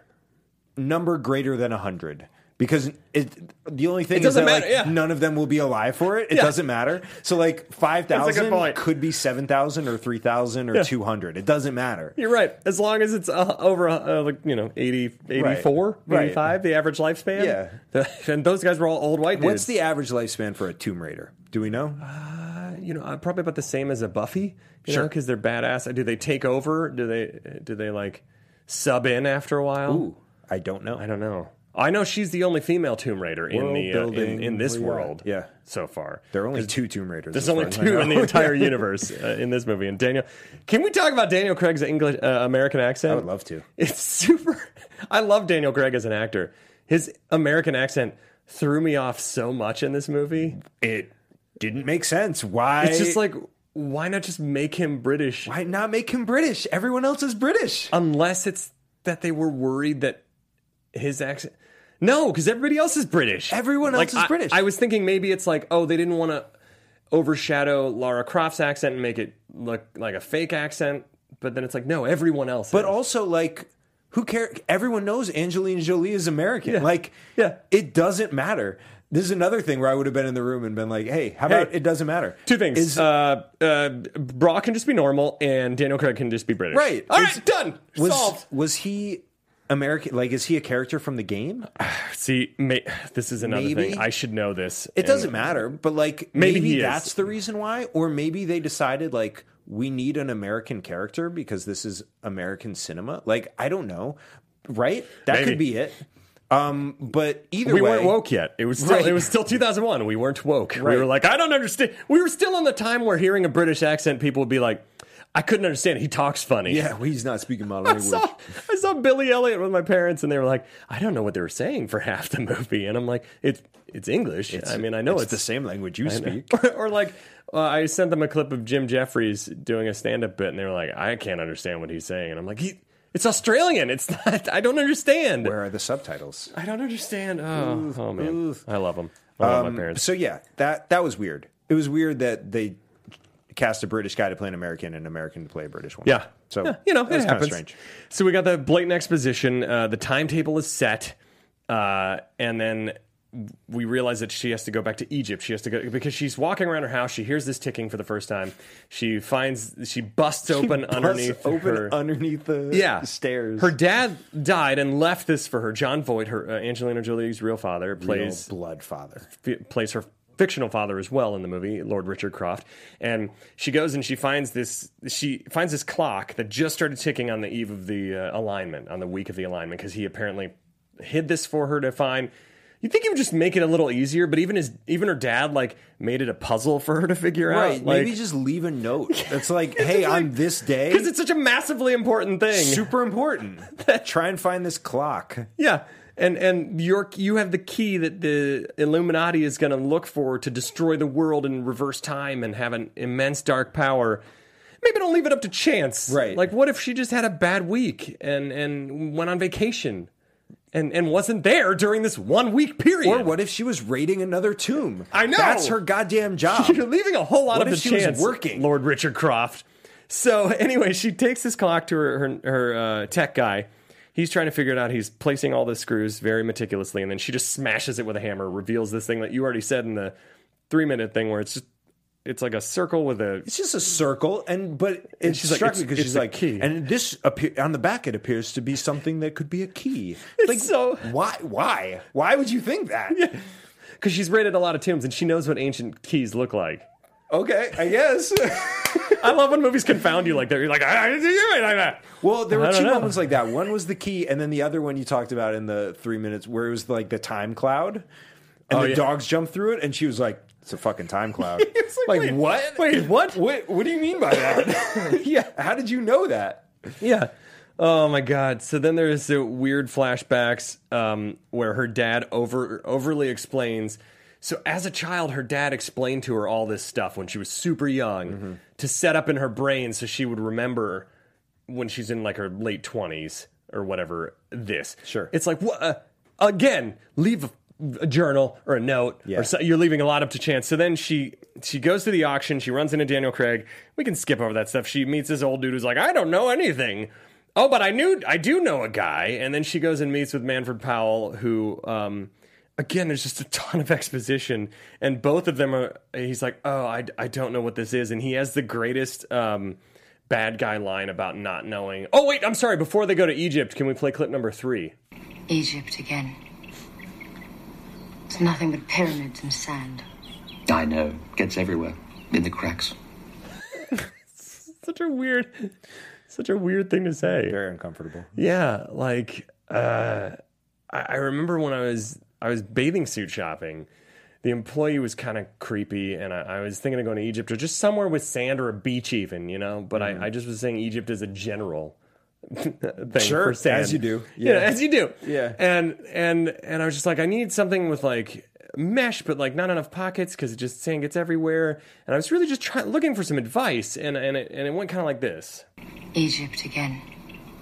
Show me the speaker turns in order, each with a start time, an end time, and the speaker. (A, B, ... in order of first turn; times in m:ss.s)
0:00.8-0:12.2 A
0:04.1-0:05.0 B
0:06.3-0:06.6 B
0:08.1-0:08.8 B
0:12.2-0:19.7 B
0:15.3-0:16.4 A
0:17.4-0:17.8 A
0:19.3-0:22.0 A
0:22.0-0:30.1 B
0:29.9-0:31.0 A
0:31.0-0:36.7 B
0:33.5-0:35.5 A
0:36.3-0:38.8 A
0:37.3-0:43.3 B
0:43.1-0:43.6 A
0:43.8-0:50.6 B
0:50.6-0:53.2 A
0:52.8-0:55.5 B
0:55.4-0:57.9 A
0:57.9-1:00.2 B
1:00.9-1:06.5 B
1:03.5-1:04.6 A
1:07.1-1:12.9 B
1:12.7-1:23.1 A
1:16.6-1:17.6 B
1:21.5-1:21.7 B
1:22.4-1:28.4 B
1:26.7-1:31.7 A
1:31.8-1:35.6 B
1:33.4-1:34.1 A
1:35.0-1:48.2 A
1:36.3-1:37.1 B
1:45.2-1:45.6 B
1:47.6-1:56.8 B
1:48.8-1:49.3 A
1:50.7-1:51.1 A
1:56.6-1:58.3 A
1:57.8-2:05.4 B
2:04.5-2:06.6 A
2:06.0-2:15.5 B
2:15.4-2:16.5 A
2:16.5-2:20.0 B
2:17.5-2:18.6 A
2:19.4-2:22.8 A
2:23.5-2:27.7 A
2:26.0-2:31.2 B
2:31.7-2:42.0 B
2:40.5-2:43.7 A
2:42.7-2:48.5 B
2:48.0-2:49.2 A
2:49.3-3:02.3 B
3:02.8-3:08.2 B
3:07.5-3:11.1 A
3:09.1-3:12.9 B
3:12.5-3:15.5 A
3:13.8-3:14.0 B
3:15.6-3:24.2 B
3:24.8-3:30.1 B
3:26.1-3:26.4 A
3:30.7-3:33.3 B
3:33.0-3:36.8 A
3:35.1-3:35.8 B
3:36.5-3:50.1 B
3:37.5-3:38.7 A
3:50.7-3:51.6 B
3:52.2-3:53.5 B
3:53.4-4:03.3 A
3:55.2-3:56.7 B
4:00.4-4:01.1 B
4:03.1-4:03.4 B
4:04.0-4:06.9 B
4:07.3-4:09.2 A
4:09.0-4:13.2 B
4:12.2-4:18.1 A
4:18.7-4:26.9 A
4:18.7-4:19.1 B
4:21.5-4:23.4 B
4:24.8-4:25.2 B
4:27.0-4:41.1 B
4:38.3-4:38.6 A
4:41.7-5:14.9 B
4:45.0-4:45.3 A
5:15.5-5:16.4 C
5:18.3-5:20.0 C
5:20.7-5:22.9 D
5:24.4-5:25.7 B
5:26.3-5:27.6 B
5:27.4-5:28.3 A
5:28.4-5:30.4 B
5:30.9-5:33.9 B
5:34.4-5:42.0 B
5:40.0-5:40.2 A
5:42.5-5:55.6 B
5:43.1-5:45.6 A
5:56.1-5:57.0 C